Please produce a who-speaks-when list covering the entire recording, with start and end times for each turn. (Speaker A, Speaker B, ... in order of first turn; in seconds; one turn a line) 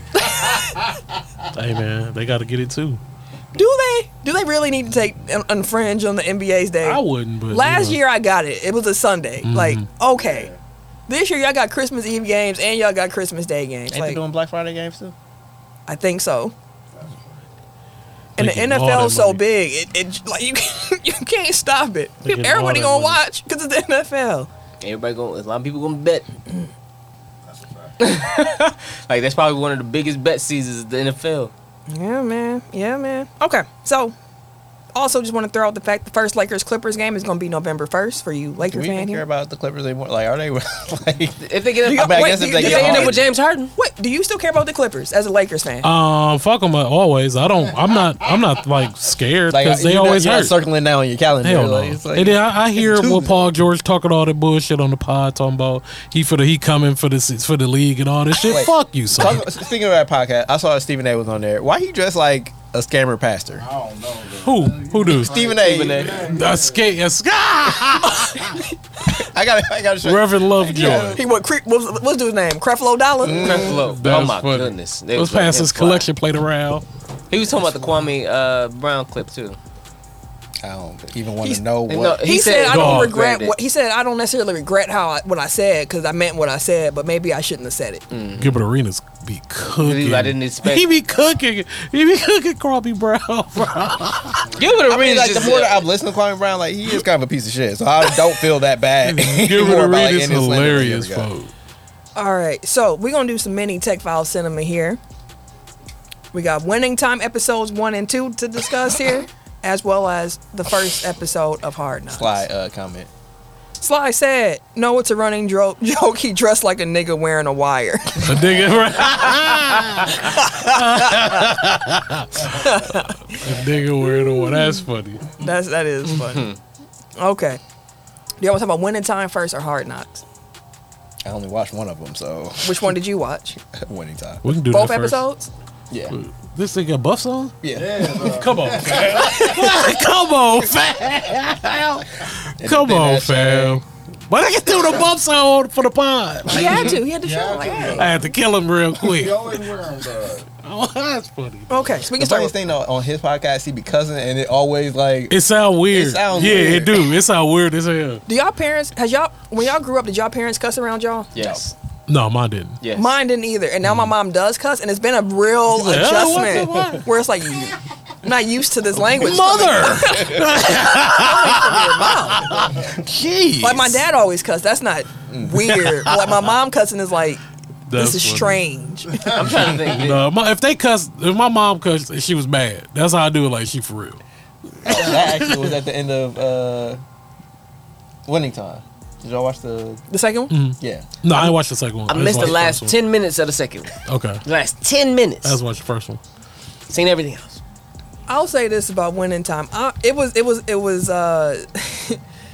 Speaker A: 0.1-0.7
Speaker B: 0.3-1.0
Speaker C: 1.5-3.0
Speaker A: 3.5-10.5
Speaker C: 6.8-8.0
Speaker C: 9.4-9.9
Speaker B: 10.1-10.6
Speaker A: 11.1-14.2
Speaker D: 13.9-15.1
Speaker A: 15.9-16.5
Speaker B: 16.9-17.4
Speaker C: 18.4-19.4
Speaker A: 18.4-24.5
Speaker C: 22.2-23.2
Speaker E: 24.8-26.2
Speaker B: 27.4-28.2
Speaker E: 28.0-31.5
Speaker A: 31.9-34.1
Speaker A: 34.9-39.2
Speaker D: 38.6-43.2
Speaker E: 41.4-43.7
Speaker A: 41.8-45.9
Speaker C: 45.8-50.5
Speaker B: 47.9-48.5
Speaker D: 49.5-53.5
Speaker C: 51.4-59.5
Speaker D: 58.4-63.7
Speaker B: 63.6-66.9
Speaker C: 64.4-65.4
Speaker D: 65.1-66.3
Speaker E: 65.6-66.1
Speaker C: 66.2-68.5
Speaker D: 69.1-71.2
Speaker C: 70.0-71.2
Speaker A: 71.1-73.7
Speaker D: 73.2-73.8
Speaker E: 73.3-76.0
Speaker C: 73.8-76.8
Speaker E: 77.3-79.6
Speaker D: 80.6-82.3
Speaker E: 81.9-83.5
Speaker A: 82.2-88.0
Speaker C: 82.7-83.1
Speaker E: 88.1-88.6
Speaker C: 88.4-94.5
Speaker E: 89.8-90.9
Speaker B: 91.1-91.3
Speaker B: 94.5-94.8
Speaker E: 94.5-95.9
Speaker D: 94.9-101.3
Speaker C: 99.0-101.5
Speaker A: 102.2-105.0
Speaker A: 106.3-112.5
Speaker D: 112.1-113.1
Speaker A: 113.8-118.5
Speaker C: 118.2-125.2
Speaker A: 120.4-121.4
Speaker A: 122.5-123.4
Speaker A: 124.0-124.8
Speaker A: 125.4-126.5
Speaker A: 127.2-127.6
Speaker A: 128.4-130.2
Speaker D: 131.2-133.0
Speaker A: 132.6-133.6
Speaker D: 133.7-134.4
Speaker C: 134.4-135.2
Speaker A: 134.7-135.5
Speaker D: 135.9-136.2
Speaker C: 136.1-137.6
Speaker D: 137.6-138.6
Speaker B: 137.7-139.8
Speaker C: 138.2-147.0
Speaker D: 142.6-143.8
Speaker A: 146.5-148.1
Speaker B: 147.1-148.3
Speaker C: 148.0-149.6
Speaker B: 149.0-150.5
Speaker C: 150.6-151.8
Speaker A: 151.7-152.5
Speaker D: 152.1-155.4
Speaker C: 155.3-158.2
Speaker D: 155.9-157.1
Speaker A: 158.3-161.4
Speaker D: 161.3-161.6
Speaker C: 162.1-162.8
Speaker E: 162.8-163.1
Speaker A: 162.9-172.6
Speaker C: 165.7-167.0
Speaker E: 166.3-167.0
Speaker D: 166.7-167.0
Speaker C: 169.1-172.6
Speaker D: 172.8-174.0
Speaker A: 173.6-177.4
Speaker D: 175.3-176.3
Speaker C: 177.9-178.6
Speaker A: 177.9-179.4
Speaker E: 179.3-180.2
Speaker C: 179.5-184.2
Speaker D: 184.8-187.0
Speaker C: 184.8-185.7
Speaker D: 188.2-190.0
Speaker A: 190.1-190.5
Speaker C: 190.5-192.9
Speaker D: 190.8-191.1
Speaker E: 192.1-195.6
Speaker C: 194.1-194.4
Speaker C: 195.4-196.2
Speaker E: 196.9-197.6
Speaker A: 198.3-202.2